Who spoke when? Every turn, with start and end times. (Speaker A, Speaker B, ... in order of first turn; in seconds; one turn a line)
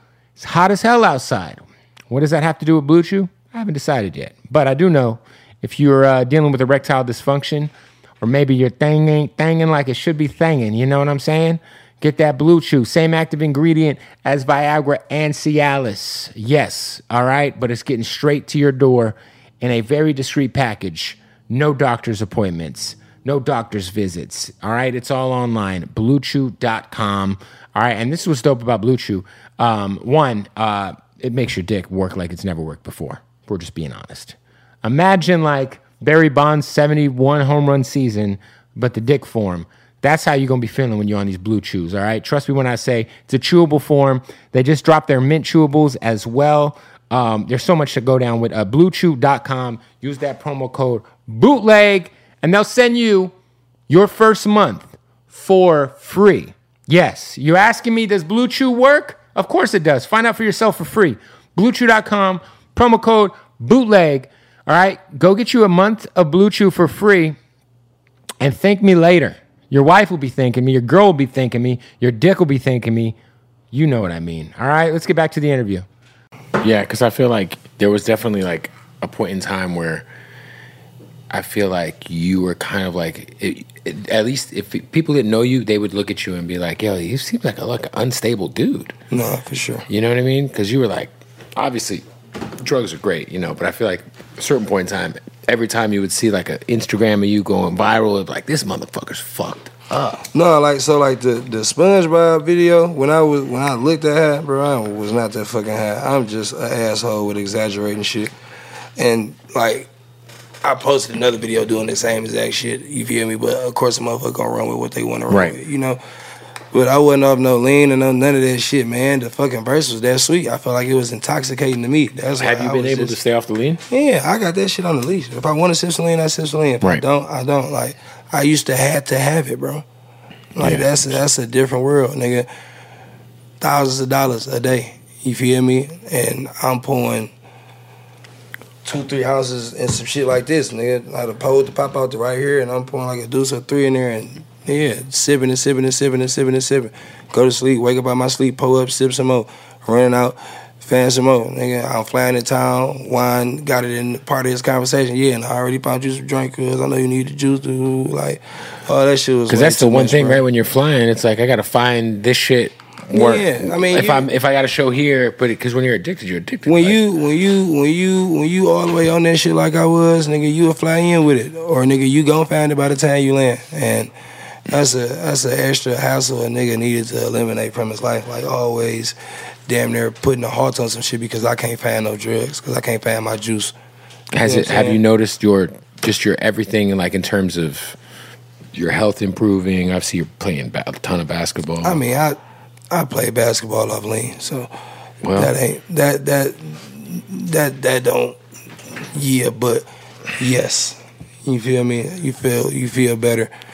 Speaker A: 0.4-53.3
Speaker A: 53.9-67.4
Speaker A: 68.4-73.2
Speaker A: 73.7-75.9
Speaker A: 76.6-80.1
Speaker A: 81.3-89.0
Speaker B: 89.1-89.9
Speaker A: 89.9-92.0
Speaker A: 92.6-100.2
Speaker B: 100.3-108.3
Speaker B: 109.0-109.9
Speaker B: 110.6-116.0
Speaker A: 115.3-115.6
Speaker B: 116.7-123.2
Speaker A: 122.4-123.8
Speaker B: 123.9-129.8
Speaker B: 130.6-132.5
Speaker A: 130.6-130.9
Speaker B: 133.6-137.3
Speaker B: 138.8-160.4
Speaker A: 159.5-167.0
Speaker B: 163.1-164.3
Speaker B: 166.7-174.1
Speaker B: 174.7-179.2
Speaker B: 179.7-183.8
Speaker A: 184.3-188.0
Speaker B: 184.4-185.0
Speaker A: 188.7-192.0
Speaker B: 191.8-192.4
Speaker B: 192.9-194.7
Speaker A: 195.2-195.5
Speaker B: 195.3-198.4
Speaker B: 199.1-203.5